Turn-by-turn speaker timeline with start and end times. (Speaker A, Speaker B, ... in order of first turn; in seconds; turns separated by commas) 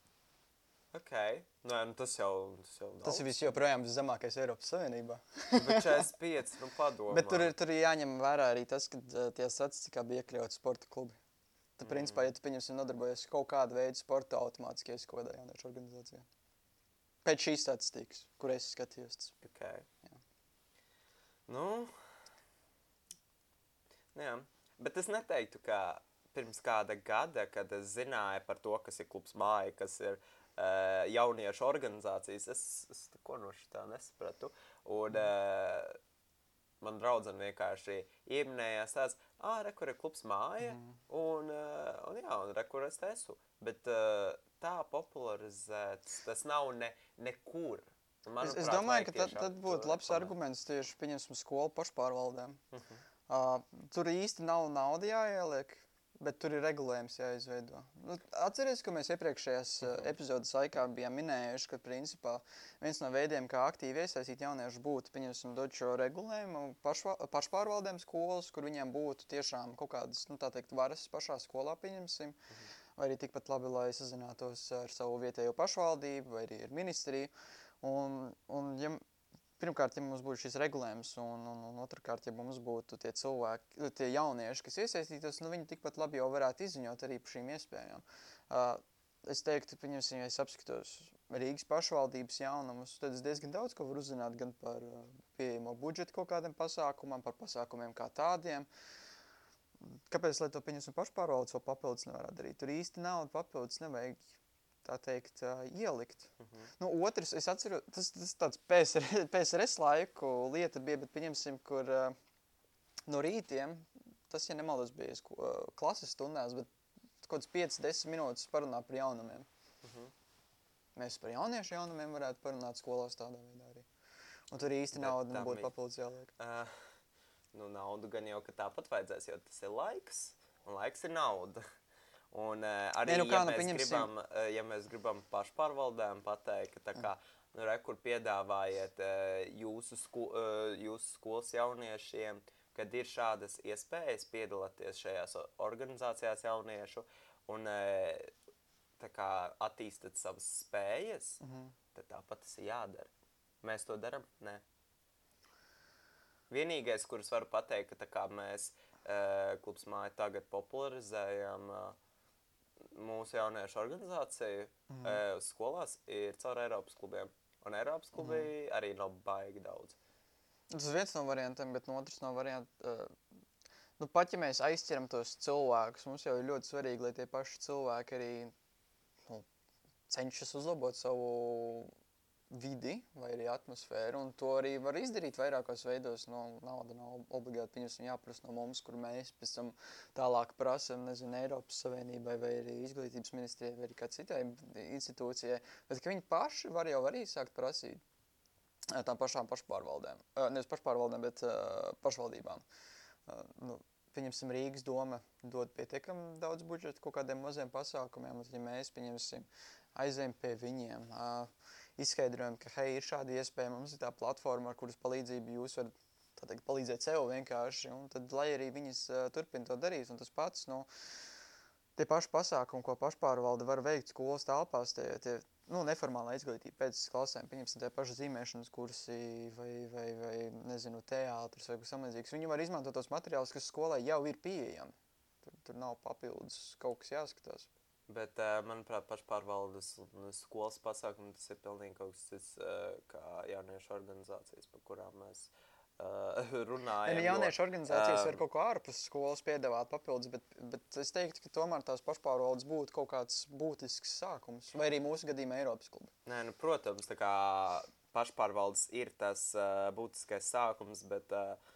Speaker A: 0.9-3.4, Speaker B: 3.0-5.8, Speaker A: 5.6-7.5, Speaker B: 7.1-11.2, Speaker B: 11.8-16.3, Speaker A: 11.8-12.3, Speaker B: 17.2-19.4, Speaker A: 19.4-19.9, Speaker A: 21.5-21.9, Speaker A: 24.1-36.0, Speaker A: 36.8-50.3, Speaker B: 40.6-41.0, Speaker B: 48.4-52.6, Speaker A: 52.7-53.0, Speaker B: 53.3-72.4, Speaker B: 73.0-79.0, Speaker B: 79.6-98.7, Speaker B: 100.1-104.3, Speaker B: 104.8-112.2, Speaker A: 106.4-106.7, Speaker B: 113.1-116.7, Speaker B: 117.2-119.5, Speaker A: 119.8-120.1, Speaker B: 121.0-123.9, Speaker B: 124.5-126.3, Speaker A: 124.9-125.7, Speaker A: 126.4-126.8, Speaker A: 127.5-131.6, Speaker A: 132.3-148.3, Speaker B: 133.1-134.1, Speaker A: 149.0-151.4, Speaker B: 151.4-151.7, Speaker A: 151.9-153.1, Speaker A: 153.6-154.6, Speaker A: 156.5-162.0, Speaker A: 162.9-170.0, Speaker B: 164.9-165.2, Speaker B: 168.2-168.5, Speaker B: 170.7-173.1, Speaker B: 174.0-178.5, Speaker B: 180.1-181.9, Speaker B: 182.5-198.0, Speaker B: 198.9-202.6, Speaker B: 203.3-220.9, Speaker B: 222.0-234.9, Speaker B: 235.4-237.7, Speaker A: 238.1-248.4, Speaker B: 247.0-256.1, Speaker A: 256.3-261.6